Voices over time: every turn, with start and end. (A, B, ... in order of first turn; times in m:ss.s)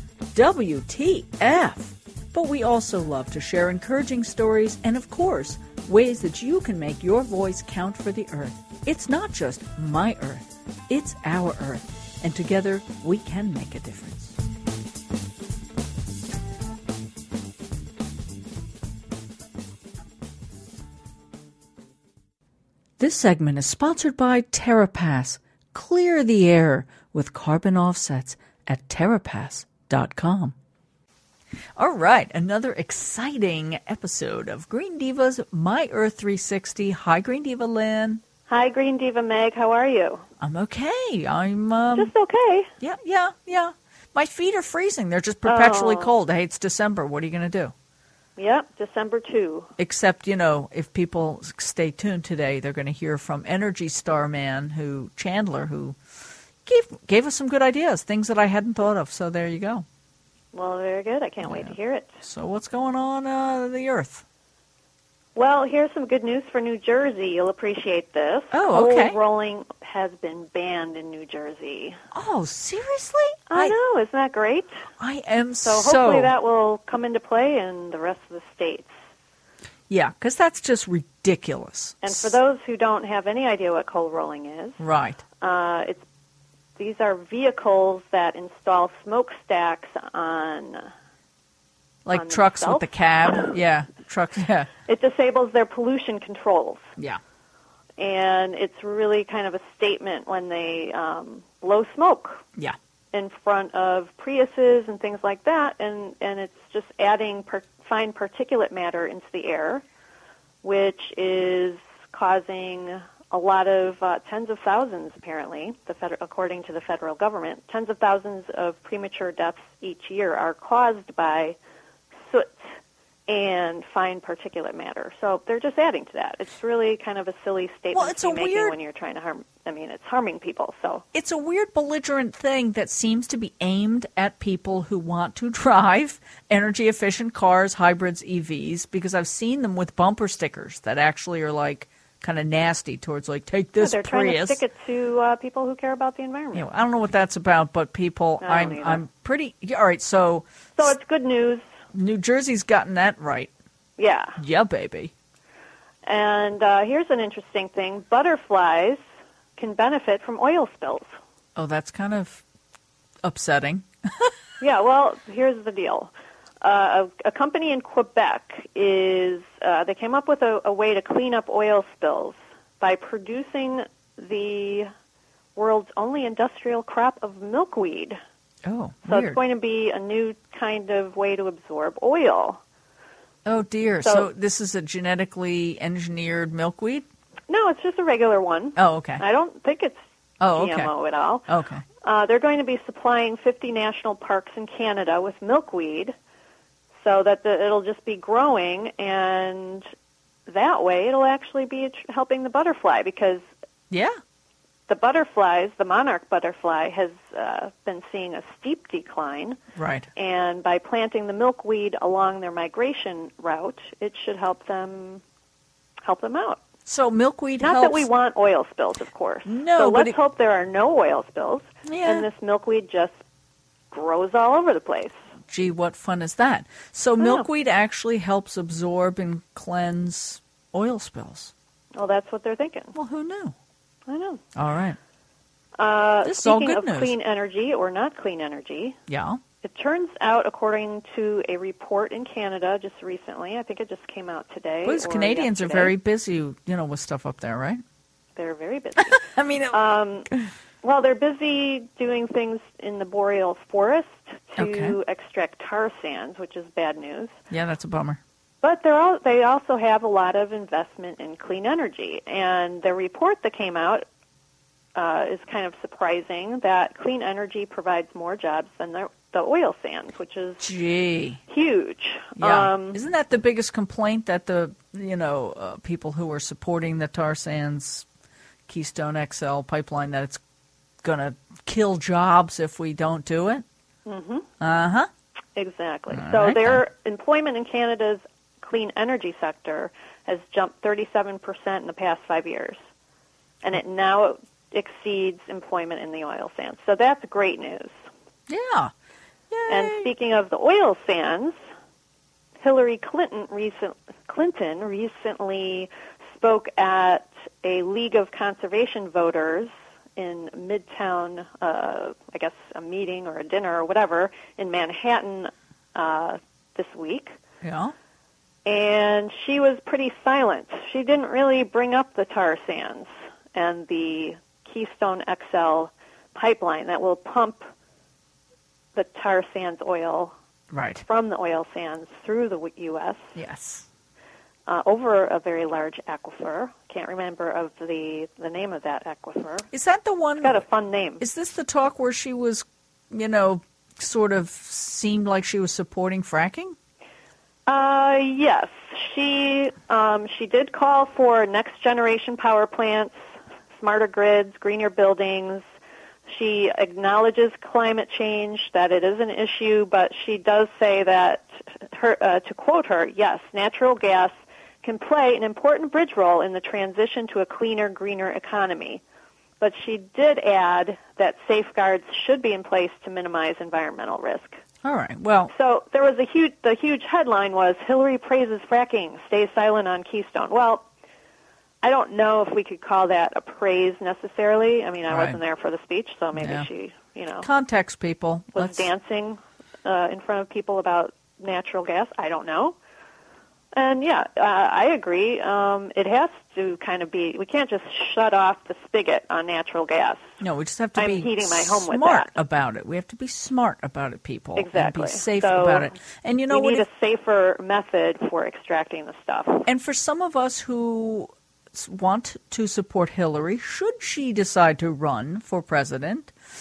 0:00.3-0:14.4 A
0:23.0-0:30.6 A
0:31.8-0:38.2 A
0:38.5-0:40.2 B
0:40.4-0:42.1 A
0:41.9-0:42.7 B
0:42.8-0:47.7 A
0:45.4-0:46.1 B
0:48.4-0:49.7 B
0:49.8-0:56.0 A
0:56.7-0:59.8 A
1:00.5-1:02.2 B
1:01.4-1:04.2 A
1:05.4-1:12.0 B
1:08.5-1:09.2 A
1:12.1-1:13.8 A
1:13.5-1:14.8 B
1:15.0-1:16.4 A
1:15.6-1:18.9 B
1:19.9-1:22.4 A
1:22.0-1:24.8 B
1:24.8-1:25.2 A
1:25.4-1:26.0 B
1:26.8-1:30.9 B
1:32.1-1:34.7 A
1:32.1-1:32.9 B
1:34.9-1:36.9 B
1:38.0-1:42.4 B
1:43.1-1:49.8 B
1:50.6-2:01.6 B
2:02.2-2:02.7 B
2:03.3-2:11.0 B
2:07.9-2:08.8 A
2:11.1-2:24.6 A
2:23.8-2:26.7 B
2:26.6-2:30.5 A
2:28.4-2:29.0 B
2:30.8-2:31.7 B
2:31.9-2:33.5 A
2:34.0-2:34.4 B
2:34.4-2:35.1 A
2:36.1-2:39.0 B
2:39.6-2:41.1 B
2:41.6-2:42.4 A
2:43.2-2:44.3 A
2:44.6-2:54.9 B
2:55.6-2:58.2 B
2:58.7-2:59.4 A
2:59.0-3:02.6 B
3:03.5-3:07.1 A
3:04.0-3:04.3 B
3:07.5-3:10.0 B
3:08.8-3:09.2 A
3:10.4-3:10.9 A
3:10.5-3:11.5 B
3:11.5-3:11.8 A
3:12.0-3:16.1 B
3:17.0-3:19.8 B
3:20.5-3:23.4 B
3:23.9-3:24.2 A
3:24.9-3:29.6 B
3:29.8-3:30.1 A
3:30.2-3:35.2 B
3:36.0-3:36.6 B
3:36.9-3:38.1 A
3:37.6-3:43.2 B
3:39.4-3:40.2 A
3:41.9-3:42.3 A
3:43.9-3:45.2 B
3:45.5-3:51.5 A
3:47.2-3:47.5 B
3:52.0-3:53.0 B
3:53.0-3:53.6 A
3:54.1-3:54.4 B
3:54.6-3:55.0 A
3:55.8-3:59.0 B
3:56.2-3:57.2 A
3:59.1-3:59.4 A
3:59.6-4:06.0 B
4:04.8-4:07.8 A
4:08.4-4:10.3 B
4:09.1-4:09.8 A
4:10.8-4:17.4 B
4:14.6-4:15.0 A
4:17.5-4:18.2 A
4:18.6-4:24.1 B
4:25.0-4:30.7 B
4:30.6-4:31.4 A
4:31.5-4:33.0 B
4:32.4-4:38.1 A
4:38.7-4:40.4 A
4:41.0-4:43.6 A
4:44.1-4:44.5 B
4:44.6-4:45.1 A
4:45.6-4:52.8 B
4:46.1-4:46.8 A
4:53.6-4:57.9 B
4:58.5-4:58.9 A
4:59.5-5:00.1 A
4:59.7-5:01.6 B
5:02.6-5:17.3 B
5:17.6-5:17.9 A
5:18.7-5:27.6 B
5:29.0-5:30.3 B
5:30.7-5:31.0 A
5:31.0-5:33.3 B
5:33.4-5:33.9 A
5:34.7-5:39.7 B
5:39.7-5:40.6 A
5:40.4-5:41.2 B
5:41.2-5:46.8 A
5:47.7-5:53.1 B
5:53.8-5:55.6 B
5:56.3-6:09.0 B
6:09.6-6:14.6 B
6:14.8-6:15.5 A
6:15.5-6:20.9 B
6:21.8-6:27.5 B
6:25.1-6:25.4 A
6:26.4-6:26.7 A
6:27.4-6:28.9 A
6:28.6-6:32.8 B
6:33.8-6:40.2 B
6:40.4-6:46.8 A
6:41.0-6:42.3 B
6:44.6-6:45.9 B
6:46.5-6:49.7 B
6:49.7-6:56.3 A